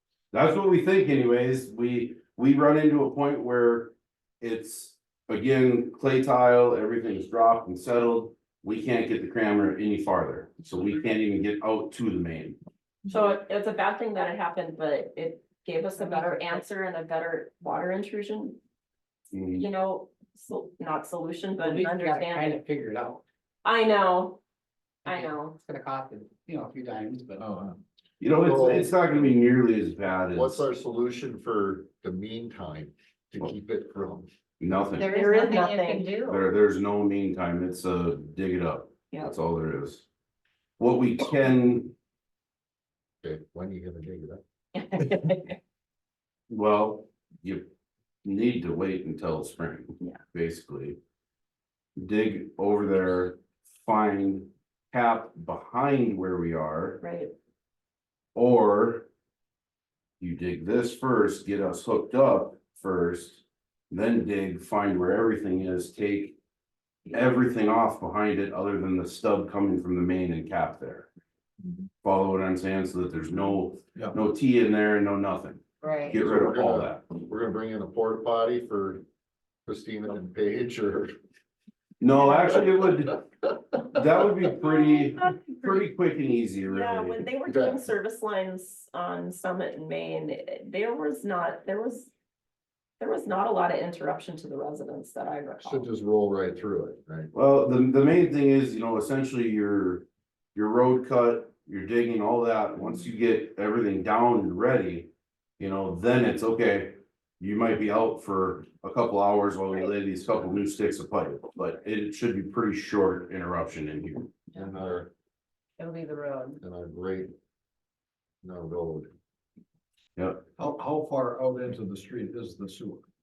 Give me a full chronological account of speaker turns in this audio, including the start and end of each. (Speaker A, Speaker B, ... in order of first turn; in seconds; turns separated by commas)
Speaker A: 0.3-12.6, Speaker B: 13.1-18.6, Speaker C: 16.0-16.6, Speaker A: 19.3-19.7, Speaker B: 19.5-22.6, Speaker D: 21.6-23.2, Speaker B: 23.6-24.4, Speaker B: 25.1-25.6, Speaker D: 25.1-27.4, Speaker E: 27.4-27.8, Speaker A: 28.2-30.6, Speaker F: 28.4-28.9, Speaker F: 30.3-34.3, Speaker A: 34.6-35.2, Speaker C: 34.9-36.5, Speaker B: 35.1-36.1, Speaker A: 36.1-40.1, Speaker A: 40.8-41.9, Speaker F: 43.2-44.4, Speaker B: 44.7-45.6, Speaker A: 46.5-47.7, Speaker A: 48.2-51.0, Speaker A: 52.0-57.0, Speaker B: 57.0-57.3, Speaker A: 58.3-59.1, Speaker A: 60.2-66.4, Speaker A: 67.1-71.1, Speaker A: 72.0-77.0, Speaker C: 75.8-76.2, Speaker F: 76.1-79.0, Speaker F: 79.7-81.1, Speaker A: 82.0-87.2, Speaker B: 84.7-85.9, Speaker B: 86.7-92.1, Speaker F: 87.5-87.8, Speaker B: 93.0-95.9, Speaker F: 95.6-97.3, Speaker A: 97.3-114.4, Speaker F: 114.5-115.1, Speaker C: 115.8-116.6, Speaker F: 116.6-117.3, Speaker F: 118.4-119.1, Speaker A: 120.2-120.4, Speaker E: 120.6-123.1